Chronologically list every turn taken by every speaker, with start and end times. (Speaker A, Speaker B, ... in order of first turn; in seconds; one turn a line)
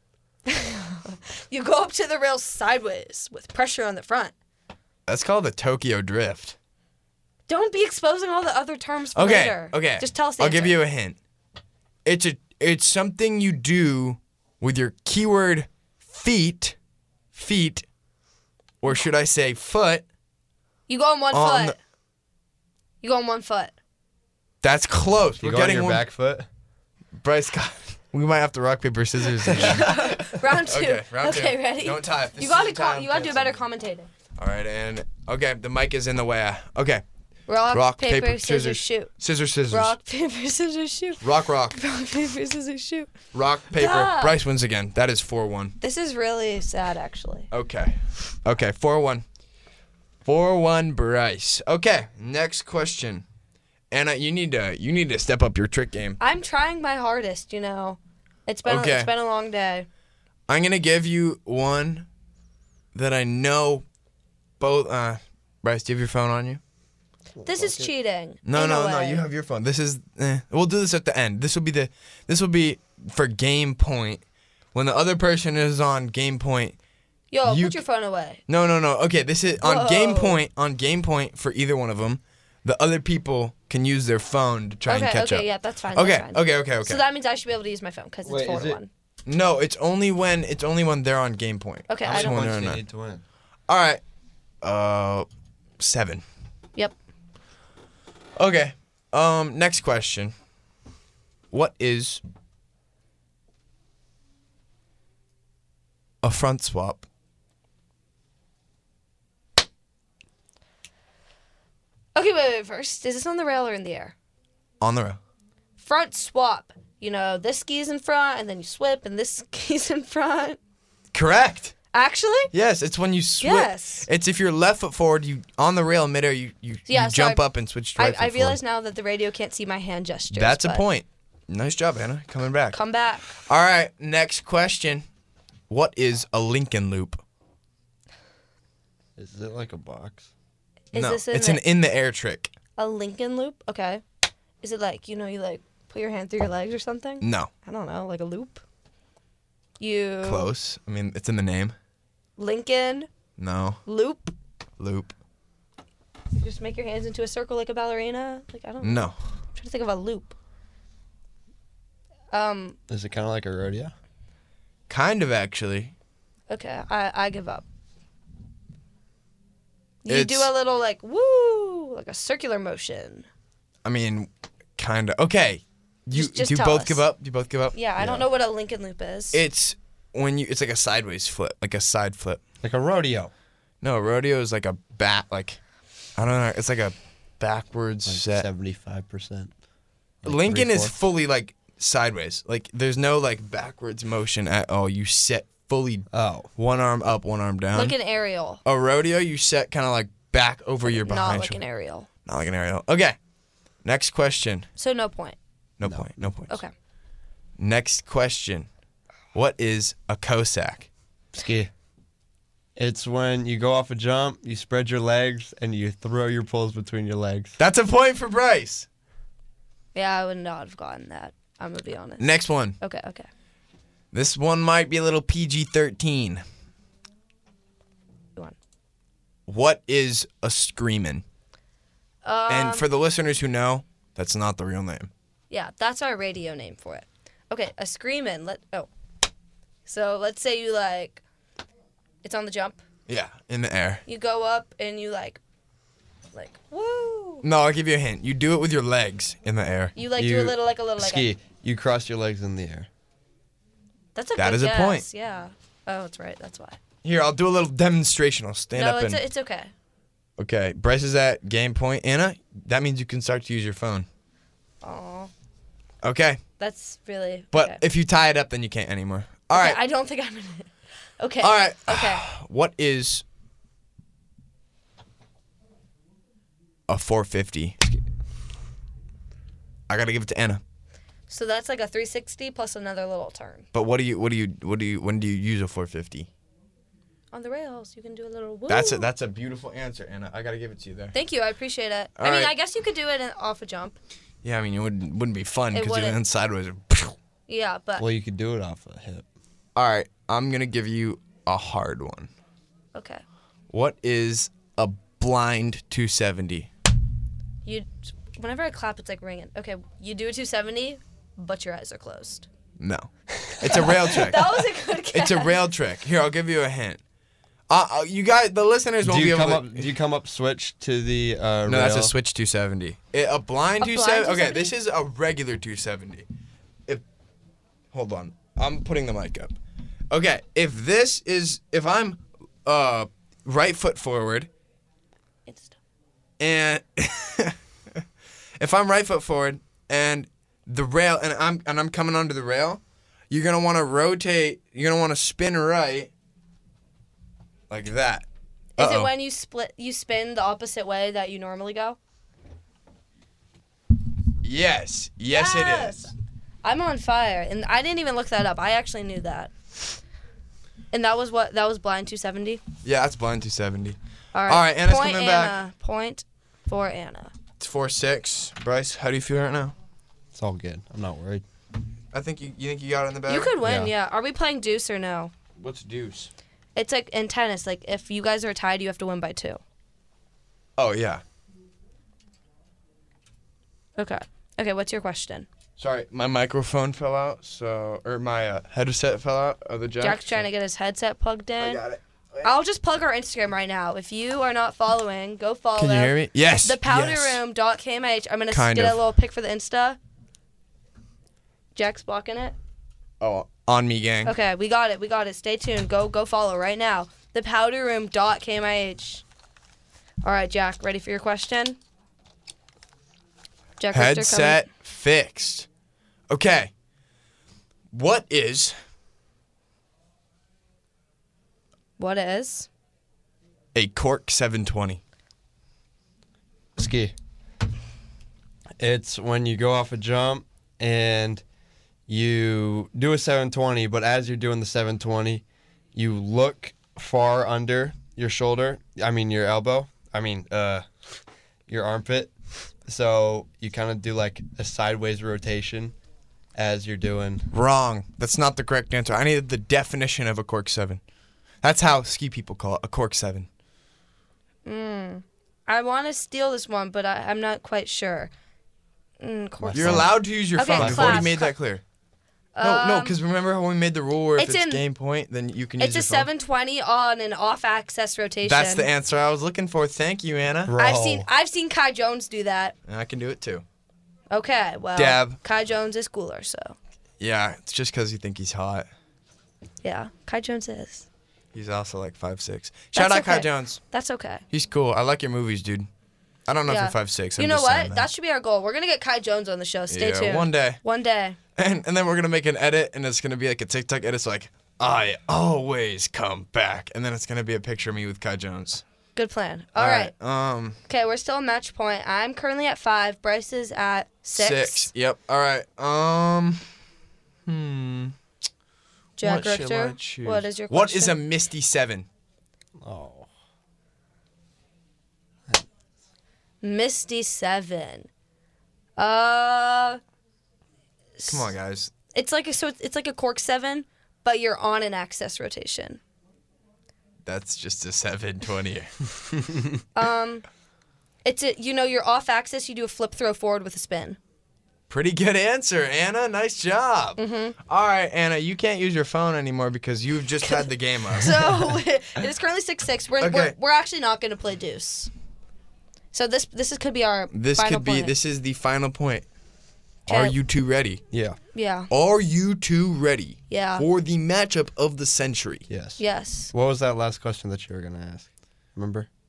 Speaker A: 0.5-4.3
Speaker B: 5.1-6.5
Speaker A: 7.5-10.8
Speaker B: 9.1-11.2
Speaker B: 12.0-16.8
Speaker B: 17.3-17.9
Speaker B: 18.8-20.0
Speaker A: 20.9-21.8
Speaker B: 21.3-21.7
Speaker A: 23.0-23.7
Speaker B: 24.6-26.0
Speaker C: 25.4-26.5
Speaker B: 27.2-33.6
Speaker A: 29.5-34.1
Speaker B: 34.4-37.0
Speaker A: 37.5-39.1
Speaker B: 37.7-39.9
Speaker A: 39.7-43.1
Speaker B: 41.2-41.8
Speaker B: 43.3-45.8
Speaker A: 43.7-44.4
Speaker A: 45.8-47.5
Speaker B: 47.5-49.2
Speaker B: 50.2-53.2
Speaker B: 53.9-56.2
Speaker A: 56.2-59.9
Speaker B: 58.6-59.1
Speaker B: 60.5-62.1
Speaker B: 62.9-63.8
Speaker B: 64.6-66.6
Speaker C: 67.4-67.9
Speaker A: 67.4-69.2
Speaker B: 68.4-74.2
Speaker B: 74.7-76.8
Speaker A: 77.3-78.4
Speaker B: 77.4-77.8
Speaker B: 78.5-87.0
Speaker A: 79.6-80.4
Speaker A: 84.9-88.9
Speaker C: 88.2-88.8
Speaker B: 89.2-92.8
Speaker A: 91.9-92.4
Speaker C: 92.0-93.2
Speaker B: 93.7-94.0
Speaker B: 94.6-95.2
Speaker B: 95.8-96.2
Speaker B: 98.3-100.3
Speaker B: 101.5-102.2
Speaker B: 106.2-107.0
Speaker A: 112.1-114.1
Speaker B: 114.8-115.2
Speaker A: 115.8-120.6
Speaker B: 121.1-121.7
Speaker A: 121.9-122.5
Speaker B: 122.5-128.6
Speaker A: 123.4-124.1
Speaker A: 126.9-130.9
Speaker B: 130.3-132.8
Speaker A: 132.7-133.4
Speaker B: 133.4-135.0
Speaker B: 135.7-137.2
Speaker C: 139.2-140.3
Speaker A: 140.9-141.6
Speaker B: 140.9-142.5
Speaker A: 142.8-144.0
Speaker A: 144.6-148.6
Speaker B: 147.2-147.5
Speaker A: 149.8-150.5
Speaker B: 150.2-151.7
Speaker A: 152.4-153.1
Speaker B: 153.4-153.8
Speaker A: 153.8-154.3
Speaker B: 154.8-155.1
Speaker A: 156.3-160.3
Speaker B: 158.8-159.2
Speaker A: 162.3-162.8
Speaker C: 162.9-163.9
Speaker B: 164.9-165.9
Speaker A: 166.5-167.6
Speaker A: 170.0-173.3
Speaker B: 170.1-170.5
Speaker B: 173.8-177.8
Speaker A: 176.1-177.1
Speaker A: 177.7-179.4
Speaker C: 178.0-178.2
Speaker B: 179.3-182.4
Speaker C: 182.6-183.3
Speaker B: 183.8-185.6
Speaker B: 186.2-188.5
Speaker C: 188.1-189.5
Speaker C: 190.2-190.9
Speaker B: 190.2-198.0
Speaker C: 196.1-196.5
Speaker A: 197.7-198.6
Speaker B: 198.6-201.6
Speaker A: 200.9-202.1
Speaker B: 202.2-203.2
Speaker B: 203.8-204.7
Speaker A: 204.8-205.4
Speaker B: 205.8-206.6
Speaker C: 205.8-206.1
Speaker B: 207.6-208.7
Speaker B: 209.3-210.9
Speaker C: 211.3-211.7
Speaker C: 212.8-217.5
Speaker B: 217.6-218.9
Speaker A: 219.9-223.3
Speaker B: 222.2-222.8
Speaker B: 224.1-226.4
Speaker B: 229.5-231.2
Speaker A: 232.2-232.8
Speaker B: 232.5-235.1
Speaker A: 235.5-238.9
Speaker A: 239.8-241.2
Speaker A: 242.2-242.8
Speaker B: 243.1-244.0
Speaker A: 244.1-245.4
Speaker A: 246.3-247.4
Speaker B: 247.4-249.9
Speaker A: 249.9-251.3
Speaker C: 250.2-252.9
Speaker A: 254.1-256.8
Speaker B: 254.3-255.0
Speaker B: 257.0-259.2
Speaker A: 258.7-259.7
Speaker B: 260.4-264.1
Speaker A: 264.8-265.3
Speaker B: 266.0-266.4
Speaker A: 266.6-267.8
Speaker B: 267.5-269.8
Speaker A: 269.5-272.2
Speaker B: 271.4-273.2
Speaker B: 276.9-277.8
Speaker B: 279.9-280.6
Speaker A: 281.3-283.6
Speaker B: 283.7-286.3
Speaker A: 287.3-289.1
Speaker B: 288.7-291.1
Speaker A: 291.1-293.9
Speaker B: 292.2-292.5
Speaker B: 294.4-297.1
Speaker A: 295.7-296.2
Speaker A: 297.5-298.0
Speaker C: 298.0-299.2
Speaker B: 299.8-302.3
Speaker A: 302.9-303.2
Speaker B: 303.7-306.7
Speaker A: 307.6-312.5
Speaker B: 312.8-317.0
Speaker A: 313.7-315.6
Speaker B: 317.7-319.9
Speaker C: 319.0-322.1
Speaker B: 321.6-326.2
Speaker A: 323.8-324.7
Speaker B: 327.9-329.5
Speaker B: 330.1-334.5
Speaker A: 335.4-335.8
Speaker B: 336.4-338.0
Speaker B: 338.6-346.1
Speaker B: 347.7-348.3
Speaker A: 348.8-352.0
Speaker B: 348.8-349.1
Speaker B: 354.4-356.1
Speaker A: 355.3-356.1
Speaker A: 356.6-359.5
Speaker A: 360.9-362.6
Speaker B: 362.8-365.6
Speaker A: 364.3-367.3
Speaker B: 367.6-369.7
Speaker C: 370.3-371.4
Speaker B: 372.1-373.5
Speaker A: 373.3-375.3
Speaker C: 373.6-373.9
Speaker B: 375.6-376.3
Speaker A: 376.8-379.6
Speaker B: 380.8-381.2
Speaker A: 384.0-385.5
Speaker B: 385.8-390.4
Speaker A: 390.0-391.8
Speaker B: 391.6-392.5
Speaker A: 392.4-400.0
Speaker B: 395.8-397.4
Speaker B: 398.5-399.0
Speaker A: 401.7-402.5
Speaker B: 403.2-404.3
Speaker A: 404.2-409.2
Speaker A: 410.2-411.8
Speaker A: 413.8-414.7
Speaker B: 413.9-415.7
Speaker B: 416.3-416.7
Speaker B: 417.9-418.7
Speaker A: 422.0-422.7
Speaker B: 423.7-425.0
Speaker C: 426.8-427.1
Speaker C: 428.8-431.4
Speaker C: 432.1-435.4
Speaker C: 435.9-440.9
Speaker C: 441.7-442.3
Speaker C: 442.8-445.9
Speaker C: 446.5-447.5
Speaker B: 447.5-451.0
Speaker B: 451.6-453.5
Speaker A: 454.6-458.3
Speaker A: 459.2-461.5
Speaker C: 459.6-460.1
Speaker B: 459.7-461.8
Speaker C: 460.7-461.3
Speaker A: 462.5-463.2
Speaker B: 462.6-466.3
Speaker A: 464.4-464.8
Speaker A: 465.8-468.9
Speaker B: 468.4-470.7
Speaker C: 470.7-471.3
Speaker A: 470.8-472.7
Speaker B: 472.9-473.6
Speaker A: 474.3-476.8
Speaker B: 474.9-475.4
Speaker B: 477.2-478.9
Speaker A: 479.8-481.1
Speaker B: 481.5-483.8
Speaker A: 482.9-484.4
Speaker B: 484.5-485.9
Speaker B: 486.5-488.1
Speaker A: 486.7-491.4
Speaker B: 489.9-490.8
Speaker B: 491.6-498.8
Speaker A: 499.1-500.1
Speaker B: 499.8-500.8
Speaker A: 500.9-504.9
Speaker B: 504.3-506.6
Speaker B: 507.5-508.1
Speaker A: 509.2-511.2
Speaker B: 509.2-512.1
Speaker C: 512.8-513.3
Speaker A: 516.6-518.1
Speaker A: 519.0-520.0
Speaker A: 521.2-521.5
Speaker B: 521.3-521.9
Speaker A: 522.1-526.0
Speaker B: 527.2-528.9
Speaker A: 529.9-530.4
Speaker A: 531.2-534.2
Speaker B: 534.9-541.8
Speaker A: 537.2-537.5
Speaker A: 540.4-545.1
Speaker B: 543.2-543.5
Speaker A: 546.1-548.1
Speaker B: 547.3-549.2
Speaker A: 550.1-550.4
Speaker B: 550.1-551.0
Speaker C: 551.1-551.4
Speaker A: 551.5-551.9
Speaker B: 551.9-555.6
Speaker A: 553.5-553.9
Speaker C: 555.7-559.1
Speaker A: 556.0-556.5